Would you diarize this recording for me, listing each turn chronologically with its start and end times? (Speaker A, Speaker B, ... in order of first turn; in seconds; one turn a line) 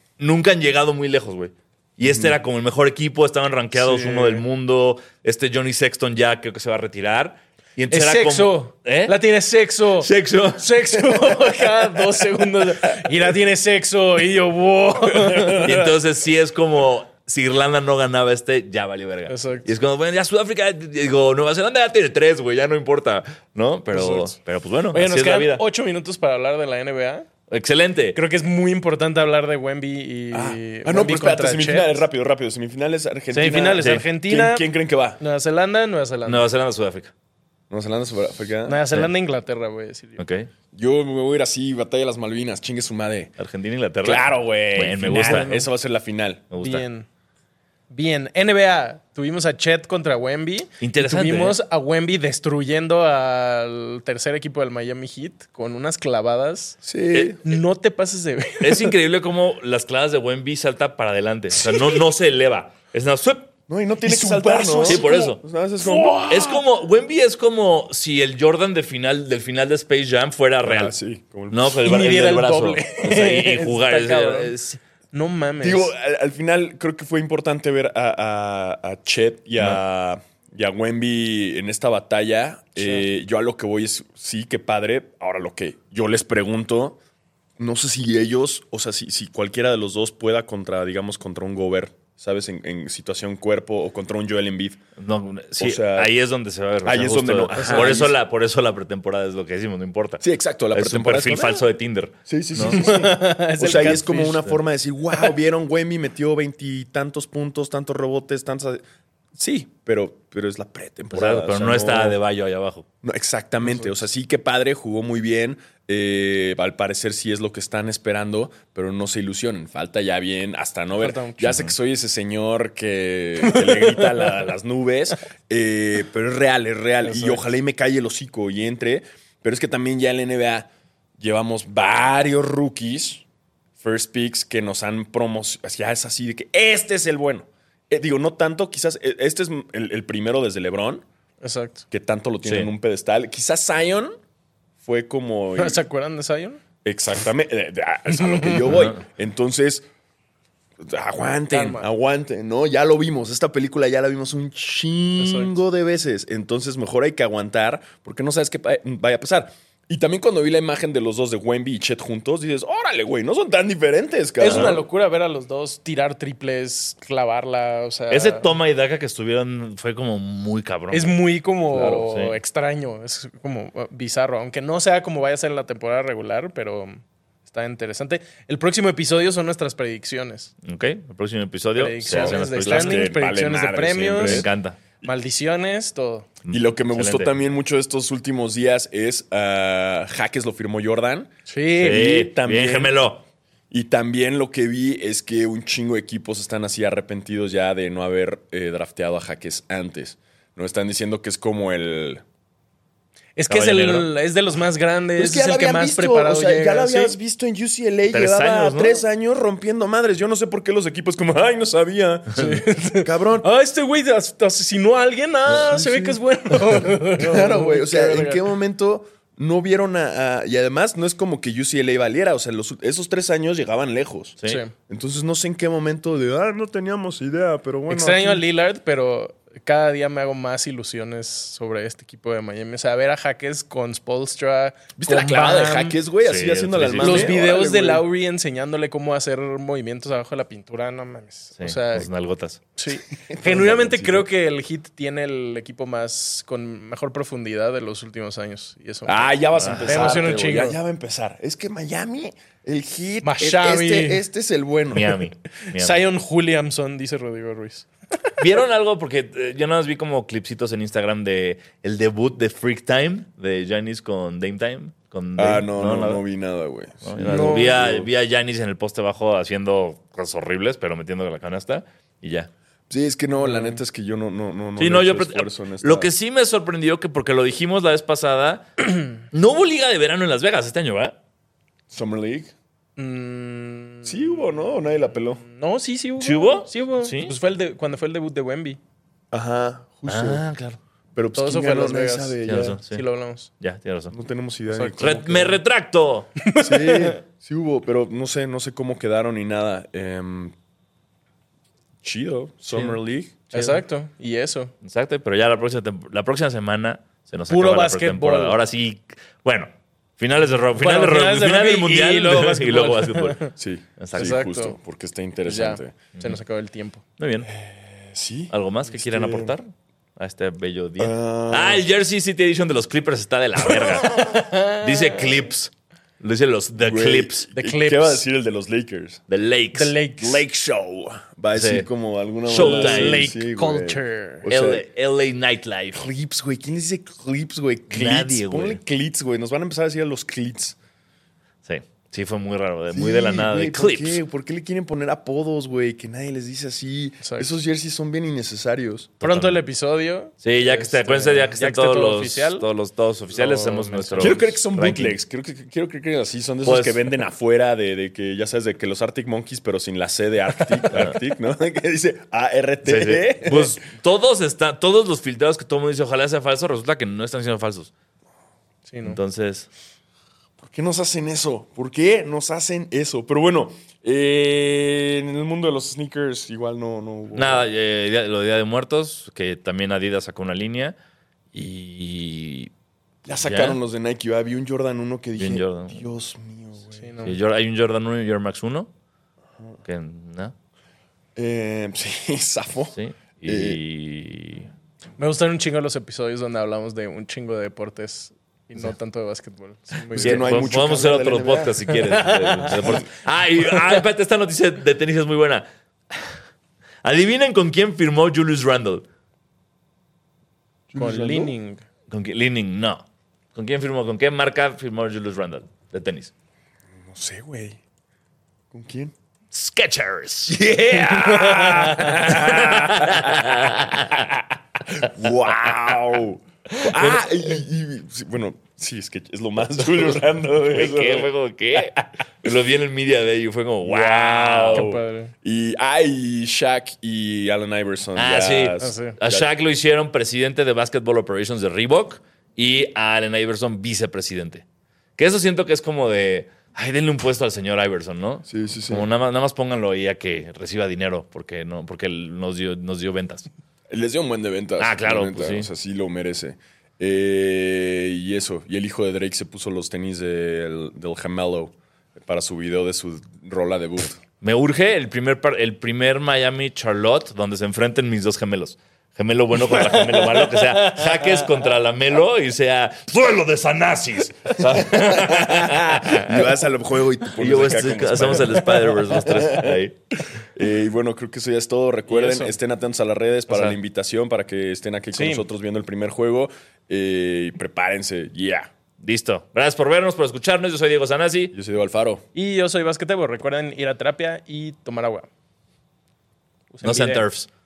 Speaker A: 0.2-9.2
Speaker B: 2.0-2.3
Speaker C: 3.7-4.4
Speaker C: 7.9-15.9
Speaker A: 10.0-10.7
Speaker A: 15.5-25.6
Speaker C: 19.3-19.7
Speaker C: 23.9-24.4
Speaker C: 24.9-27.3
Speaker A: 27.5-28.2
Speaker C: 28.1-32.0
Speaker B: 30.3-35.2
Speaker C: 33.3-34.7
Speaker A: 33.8-34.0
Speaker C: 35.2-36.5
Speaker A: 36.2-37.1
Speaker B: 37.7-38.8
Speaker C: 38.6-40.2
Speaker A: 40.2-40.5
Speaker B: 40.7-43.3
Speaker A: 43.4-45.5
Speaker B: 44.0-46.5
Speaker C: 45.1-45.7
Speaker A: 46.5-46.8
Speaker C: 46.6-47.1
Speaker C: 47.9-56.8
Speaker A: 50.8-51.6
Speaker B: 56.8-57.4
Speaker A: 57.1-57.4
Speaker C: 57.4-58.9
Speaker A: 58.6-63.5
Speaker B: 63.7-66.5
Speaker A: 64.0-65.4
Speaker C: 64.8-65.1
Speaker C: 65.8-66.6
Speaker A: 66.3-70.9
Speaker B: 70.6-71.9
Speaker A: 71.5-74.8
Speaker C: 71.8-74.5
Speaker C: 75.1-75.9
Speaker B: 75.6-87.0
Speaker C: 82.8-83.0
Speaker B: 87.6-94.8
Speaker A: 95.0-102.8
Speaker B: 95.6-96.1
Speaker B: 96.8-98.2
Speaker C: 97.5-98.0
Speaker B: 100.2-101.6
Speaker B: 102.3-108.8
Speaker C: 102.7-104.5
Speaker B: 109.3-112.2
Speaker A: 111.1-112.8
Speaker B: 113.0-133.2
Speaker C: 121.0-121.6
Speaker C: 123.4-124.5
Speaker C: 127.0-127.5
Speaker B: 133.8-141.0
Speaker C: 141.4-141.8
Speaker B: 141.9-144.1
Speaker A: 142.4-142.7
Speaker B: 144.8-145.8
Speaker C: 145.6-146.6
Speaker B: 146.8-149.8
Speaker C: 148.1-148.8
Speaker A: 148.7-149.0
Speaker B: 150.8-164.8
Speaker C: 151.5-151.9
Speaker C: 155.2-155.6
Speaker C: 164.4-168.5
Speaker A: 164.4-164.8
Speaker A: 168.1-171.2
Speaker C: 170.9-180.5
Speaker B: 171.7-172.0
Speaker A: 171.8-172.3
Speaker A: 180.6-183.1
Speaker C: 181.8-184.4
Speaker B: 182.1-184.5
Speaker A: 184.1-184.8
Speaker C: 185.0-186.3
Speaker A: 186.4-187.3
Speaker B: 186.5-193.0
Speaker C: 191.5-192.1
Speaker A: 191.8-193.2
Speaker B: 193.7-202.2
Speaker C: 203.3-207.2
Speaker A: 203.5-204.1
Speaker B: 205.2-213.5
Speaker A: 208.1-209.0
Speaker C: 212.3-218.5
Speaker B: 215.5-216.2
Speaker B: 216.7-224.4
Speaker C: 224.4-224.7
Speaker B: 224.9-228.4
Speaker C: 227.9-236.0
Speaker B: 235.0-238.0
Speaker A: 236.2-237.3
Speaker C: 237.0-242.1
Speaker A: 241.6-242.6
Speaker C: 242.8-249.3
Speaker B: 243.2-244.3
Speaker B: 249.1-255.2
Speaker A: 249.6-250.3
Speaker C: 249.8-250.8
Speaker C: 253.2-254.2
Speaker A: 254.9-256.0
Speaker C: 255.7-257.9
Speaker A: 258.4-266.2
Speaker B: 265.4-268.1
Speaker A: 267.0-272.5
Speaker C: 267.2-267.7
Speaker B: 272.9-276.1
Speaker C: 273.4-273.8
Speaker A: 274.8-281.1
Speaker B: 281.9-282.5
Speaker C: 283.0-284.5
Speaker B: 284.0-285.4
Speaker C: 285.4-288.8
Speaker A: 286.2-287.3
Speaker B: 289.3-290.4
Speaker A: 290.1-290.8
Speaker B: 291.1-292.8
Speaker C: 291.3-293.5
Speaker A: 292.4-293.0
Speaker A: 293.6-294.1
Speaker B: 294.1-295.6
Speaker C: 294.7-295.3
Speaker A: 295.0-296.3
Speaker C: 296.4-297.2
Speaker B: 296.6-300.5
Speaker B: 302.0-303.6
Speaker A: 302.7-303.0
Speaker C: 303.5-304.7
Speaker A: 304.8-313.4
Speaker C: 307.5-308.6
Speaker C: 310.8-313.5
Speaker B: 313.6-316.0
Speaker A: 314.0-314.3
Speaker C: 314.1-314.8
Speaker C: 315.4-317.0
Speaker A: 317.2-317.5
Speaker B: 317.5-319.5
Speaker A: 318.5-324.1
Speaker B: 321.0-321.8
Speaker C: 324.1-325.3
Speaker A: 324.8-327.4
Speaker B: 326.8-329.2
Speaker C: 327.5-328.2
Speaker A: 329.3-330.2
Speaker C: 329.7-330.4
Speaker B: 330.2-334.8
Speaker A: 331.5-331.9
Speaker A: 332.5-333.3
Speaker C: 332.5-334.4
Speaker A: 334.5-336.1
Speaker B: 335.9-340.8
Speaker A: 337.9-338.8
Speaker A: 341.6-344.2
Speaker B: 342.9-349.1
Speaker C: 347.2-347.5
Speaker A: 349.2-349.6
Speaker C: 349.2-352.7
Speaker A: 350.4-355.2
Speaker C: 353.3-354.5
Speaker B: 354.2-363.8
Speaker A: 356.6-357.0
Speaker A: 362.8-367.9
Speaker C: 368.9-369.2
Speaker A: 369.0-369.7
Speaker B: 370.6-377.7
Speaker A: 377.3-380.9
Speaker A: 381.5-382.7
Speaker B: 383.2-387.1
Speaker A: 383.4-383.8
Speaker A: 385.4-386.0
Speaker C: 386.9-387.4
Speaker A: 387.2-388.9
Speaker A: 389.8-390.5
Speaker B: 391.4-392.9
Speaker A: 392.9-394.7
Speaker B: 393.4-393.8
Speaker C: 395.2-400.4
Speaker A: 400.1-406.3
Speaker B: 400.1-403.1
Speaker C: 402.1-403.0
Speaker A: 407.0-409.0
Speaker B: 410.9-411.5
Speaker C: 410.9-411.8
Speaker A: 412.1-413.0
Speaker A: 413.5-416.3
Speaker B: 417.0-417.8
Speaker B: 418.7-419.1
Speaker A: 419.5-424.3
Speaker B: 420.5-431.3
Speaker C: 421.2-422.2
Speaker A: 426.7-427.2
Speaker A: 430.6-434.9
Speaker B: 433.8-439.5
Speaker C: 434.7-435.3
Speaker A: 438.1-444.6
Speaker C: 438.8-439.1
Speaker A: 445.2-453.5
Speaker B: 448.5-449.1
Speaker B: 453.9-464.2
Speaker A: 454.8-455.7
Speaker A: 464.4-476.4
Speaker C: 469.8-471.4
Speaker B: 474.6-479.7
Speaker A: 477.4-480.0
Speaker C: 478.6-479.6
Speaker B: 480.5-488.7
Speaker C: 482.1-482.5
Speaker A: 483.5-483.8
Speaker C: 485.1-485.5
Speaker A: 489.0-491.5
Speaker B: 491.5-492.2
Speaker C: 492.3-495.3
Speaker C: 496.7-497.2
Speaker A: 496.8-497.5